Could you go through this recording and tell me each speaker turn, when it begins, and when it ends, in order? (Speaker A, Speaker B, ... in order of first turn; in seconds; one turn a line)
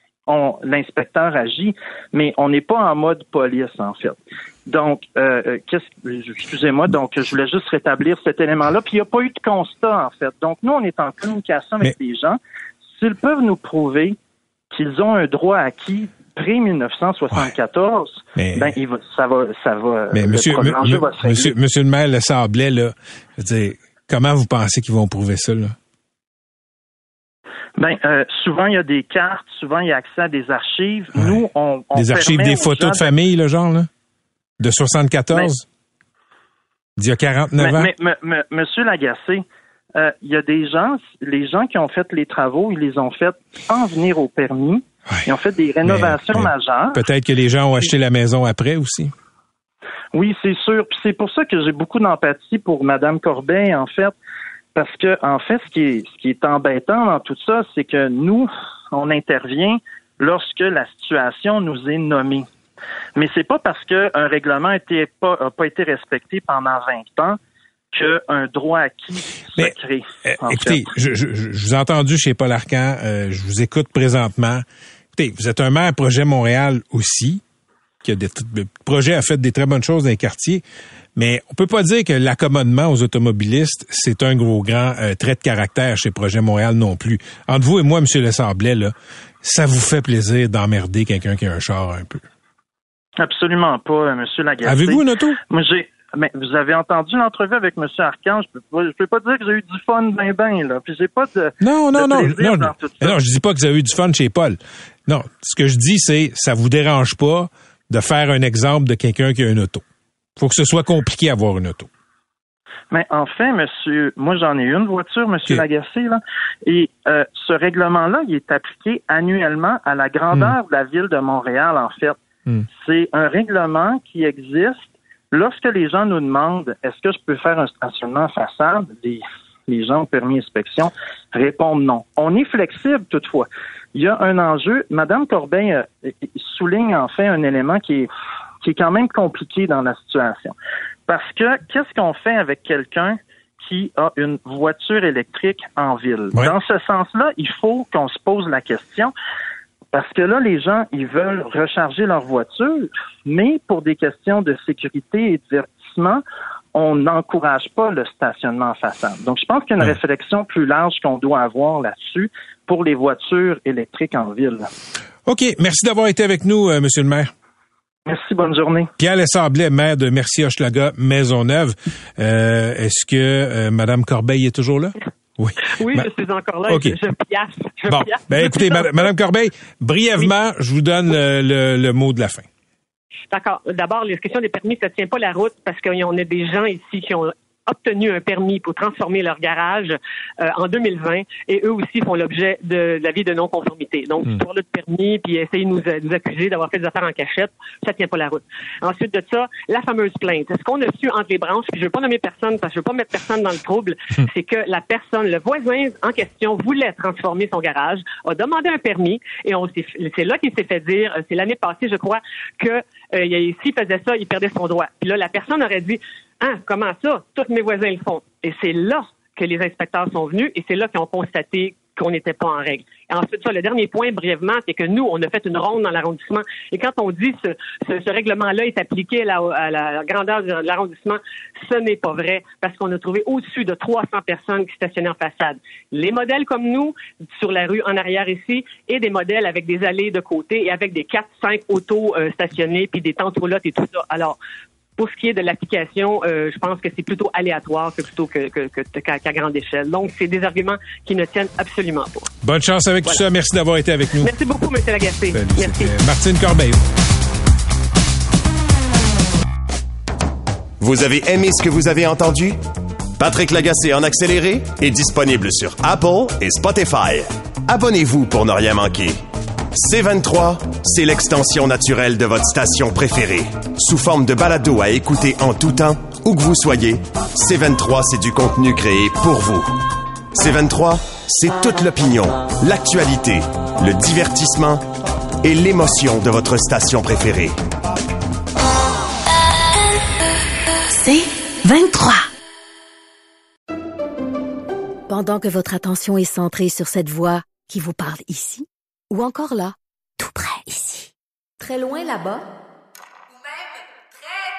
Speaker A: 0.3-12.4
Speaker A: 13.0-14.2
Speaker A: 14.7-21.5
Speaker B: 18.4-18.7
Speaker B: 20.1-25.8
Speaker A: 27.8-33.1
Speaker B: 31.9-33.9
Speaker B: 34.6-35.6
Speaker B: 37.0-37.9
Speaker A: 37.6-47.0
Speaker B: 45.9-49.1
Speaker A: 50.1-54.1
Speaker A: 54.8-62.5
Speaker A: 63.2-67.4
Speaker A: 67.9-70.9
Speaker B: 70.2-77.4
Speaker B: 78.0-80.6
Speaker B: 81.2-92.2
Speaker A: 93.2-103.2
Speaker B: 94.6-95.4
Speaker B: 101.6-109.8
Speaker B: 110.4-111.9
Speaker A: 112.9-122.2
Speaker A: 122.8-138.1
Speaker A: 138.6-140.6
Speaker A: 141.1-149.1
Speaker A: 149.9-156.2
Speaker A: 156.7-164.7
Speaker B: 165.3-167.3
Speaker A: 168.1-168.9
Speaker B: 169.0-176.1
Speaker C: 175.8-179.1
Speaker B: 176.7-177.0
Speaker B: 177.9-182.5
Speaker C: 183.3-244.4
Speaker C: 245.0-252.3
Speaker B: 252.4-254.3
Speaker C: 254.2-255.9
Speaker B: 255.3-256.8
Speaker D: 260.8-262.6
Speaker D: 263.2-269.2
Speaker D: 269.7-279.7
Speaker D: 280.3-284.9
Speaker D: 285.4-287.6
Speaker E: 290.9-292.3
Speaker E: 295.1-302.5